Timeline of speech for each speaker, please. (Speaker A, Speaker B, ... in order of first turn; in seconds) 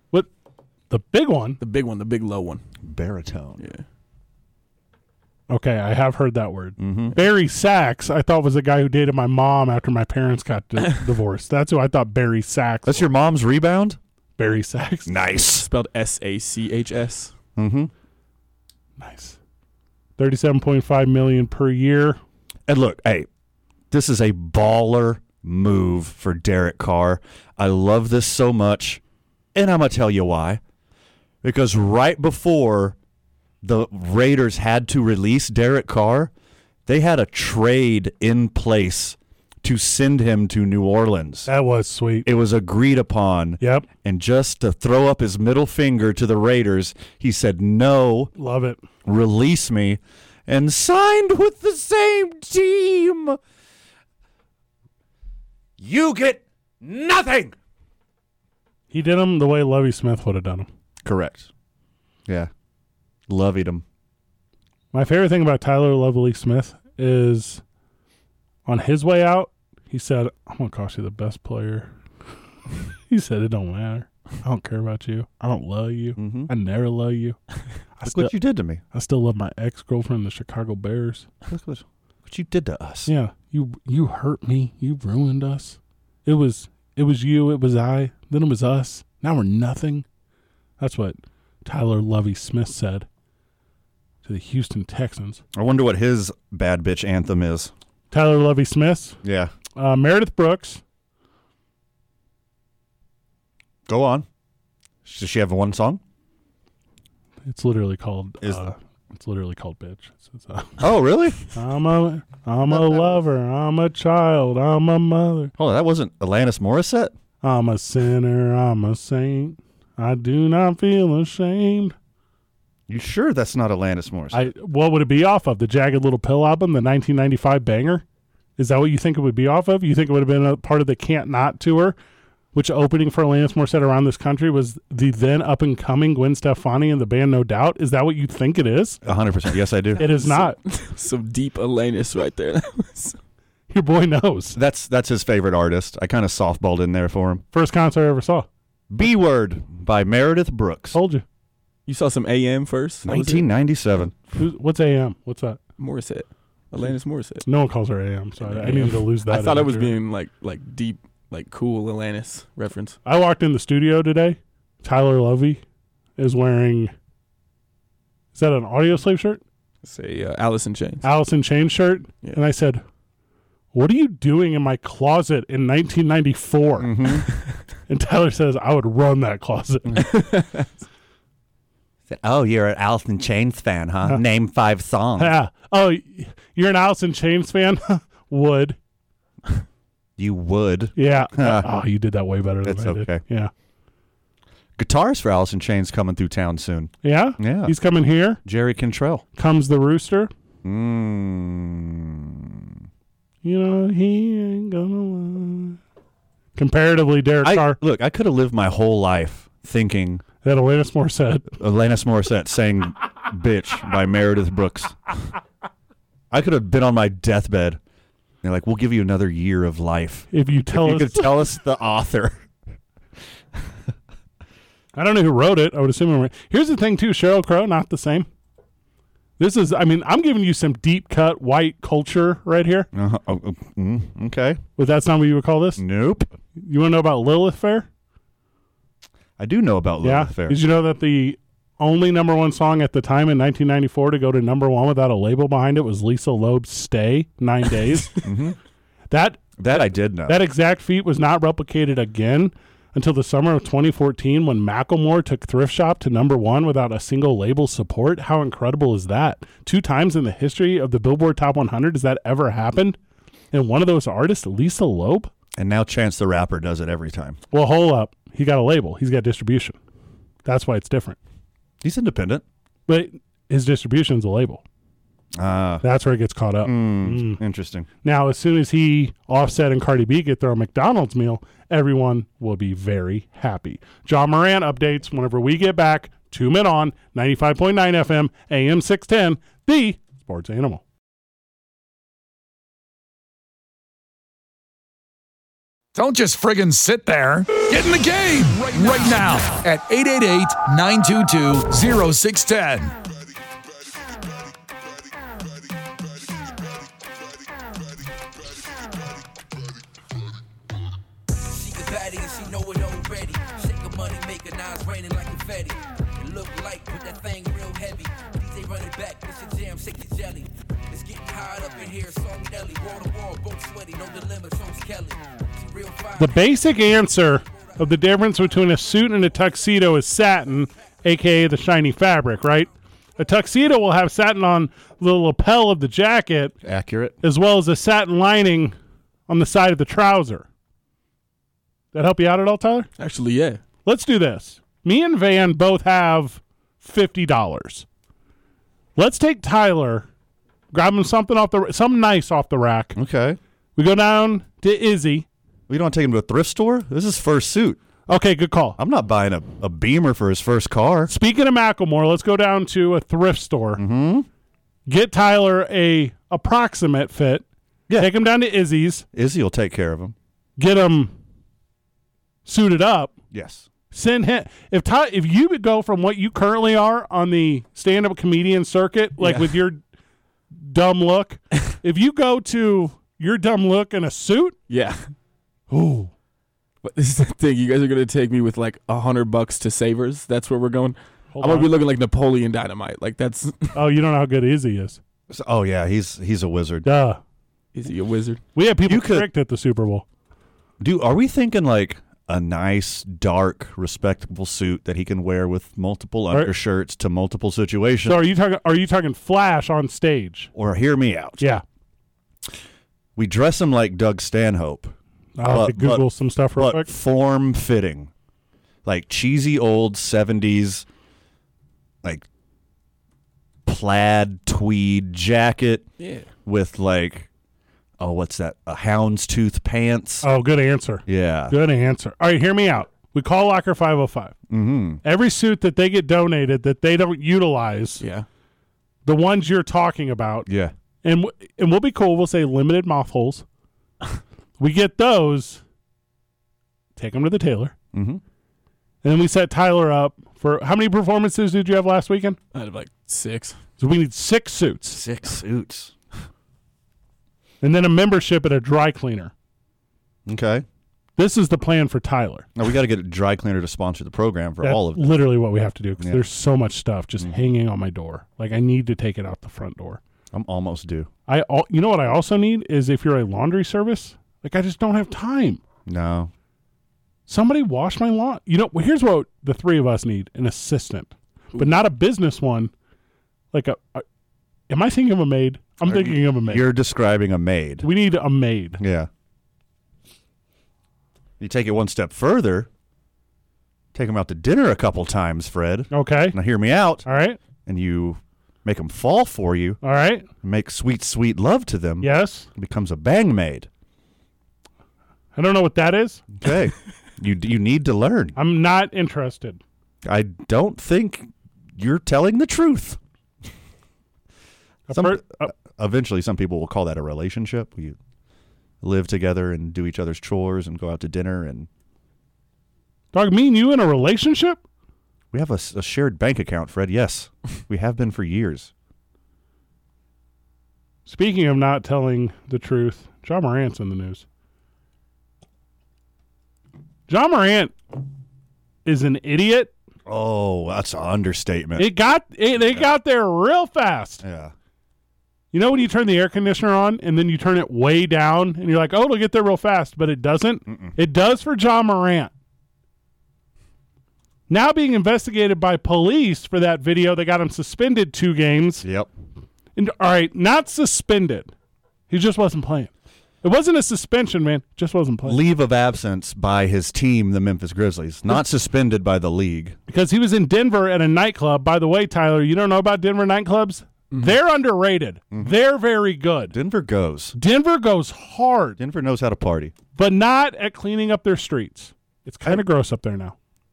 Speaker A: 0.9-1.6, 5.5-13.1, 14.4-15.2, 19.0-19.4, 20.2-22.2, 41.5-42.3, 43.6-43.9, 48.4-48.8, 58.9-60.7, 64.9-67.6, 68.7-71.9, 73.1-77.4, 78.0-78.3, 78.9-81.3, 83.1-90.0, 90.8-93.0, 94.2-95.4, 98.1-99.2, 99.8-100.8, 107.5-110.8, 111.5-115.5, 117.4-121.9, 124.3-128.0, 128.6-131.9, 132.5-139.0, 140.0-140.6, 143.7-144.6, 147.5-148.5, 150.9-151.2, 154.3-155.6, 157.4-159.9, 163.1-165.6, 166.2-166.9, 168.3-169.4, 171.0-172.8, 173.7-176.9, 177.9-180.2, 185.2-188.8, 190.9-193.5, 197.0-198.4, 199.3-200.3, 203.4-205.8, 206.6-207.8, 210.4-211.5, 220.3-221.4, 224.9-228.3, 229.4-232.9, 234.8-235.8, 236.6-237.9, 240.0-248.2, 249.1-263.0, 263.5-265.3, 267.5-269.8, 270.4-271.2, 272.9-274.6, 275.8-277.4, 278.0-290.8, 326.2-336.5, 337.2-338.7, 339.3-340.4, 341.9-342.9, 343.9-347.9, 349.0-350.1, 350.7-352.9, 353.8-355.2, 358.1-358.8, 361.1-363.8, 364.9-367.4, 368.0-369.0, 370.6-371.1, 372.4-373.1, 373.9-379.8, 380.5-384.5, 385.7-386.1, 391.3-391.7, 393.7-395.0, 396.8-397.2, 398.5-400.0, 408.1-410.5, 415.4-416.9, 430.2-434.3, 435.0-438.0, 439.0-440.5, 441.0-443.4, 444.6-445.6, 446.9-447.7, 449.0-452.4, 453.8-455.0, 457.6-459.3, 461.2-462.5, 464.6-470.0, 471.3-475.6, 477.3-482.7, 483.5-484.0, 484.7-486.7, 487.8-488.8, 495.9-496.4, 497.1-497.4, 499.8-500.3, 502.0-502.5, 505.3-506.2, 508.4-509.6, 514.9-515.5, 523.1-524.6, 531.0-534.2, 537.1-537.7, 538.9-539.7, 541.8-544.2, 545.5-552.3, 554.5-558.8, 559.8-561.5, 562.1-562.9, 563.4-565.4, 569.9-576.5, 577.3-578.8, 580.0-583.3
Speaker B: 1.6-2.6, 3.6-3.8, 15.5-17.3, 140.0-143.2, 151.8-153.5, 155.8-157.4, 158.4-163.0, 169.8-171.0, 180.0-180.7, 343.0-343.6, 379.2-379.6, 384.7-385.0, 386.8-393.7, 397.7-398.4, 426.0-426.3, 438.0-438.2, 452.5-453.6
Speaker C: 2.8-3.6, 6.8-7.2, 12.8-14.0, 15.1-15.7, 17.6-17.9, 22.7-23.3, 23.9-29.0, 29.5-30.6, 31.4-33.0, 33.6-36.3, 36.9-41.5, 42.2-48.3, 49.0-53.4, 55.8-57.5, 61.0-61.5, 63.3-63.8, 76.2-76.5, 78.0-78.8, 81.5-83.1, 95.5-97.7, 99.2-99.5, 103.9-104.2, 105.0-106.0, 110.8-111.4, 112.7-113.2, 115.6-117.1, 122.9-124.5, 139.0-140.0, 144.5-147.4, 148.9-151.0, 153.0-154.2, 176.8-177.3, 182.1-185.3, 190.2-191.7, 192.6-193.2, 194.8-197.7, 198.4-199.2, 200.6-202.7, 207.4-210.2, 211.6-215.2, 216.3-217.8, 218.4-222.4, 232.9-234.6, 235.8-236.3, 239.4-240.6, 248.2-248.6, 249.6-250.4, 265.6-267.4, 271.8-272.4, 275.4-275.8, 276.6-277.9, 336.6-337.2, 352.9-353.4, 355.7-357.8, 358.8-361.1, 363.8-364.3, 369.1-370.1, 373.3-373.7, 395.3-396.9, 398.8-399.3, 400.8-408.2, 410.5-411.5, 413.1-418.1, 418.8-420.9, 423.6-425.9, 426.4-427.3, 428.0-430.3, 431.1-431.6, 434.5-435.0, 440.5-440.7, 447.9-448.2, 454.9-455.9, 460.2-460.6, 462.6-465.2, 470.3-471.1, 475.9-476.3, 485.8-487.9, 488.8-489.1, 491.4-492.7, 493.9-497.1, 497.6-499.8, 500.4-503.7, 506.3-508.4, 510.0-513.0, 514.9-518.0, 518.8-521.7, 525.3-528.7, 540.0-541.9, 542.6-542.9, 544.2-544.5, 550.7-550.9, 558.8-559.1, 565.2-569.8, 576.5-577.3, 578.8-579.7
Speaker D: 295.9-302.9
Speaker E: 311.4-326.6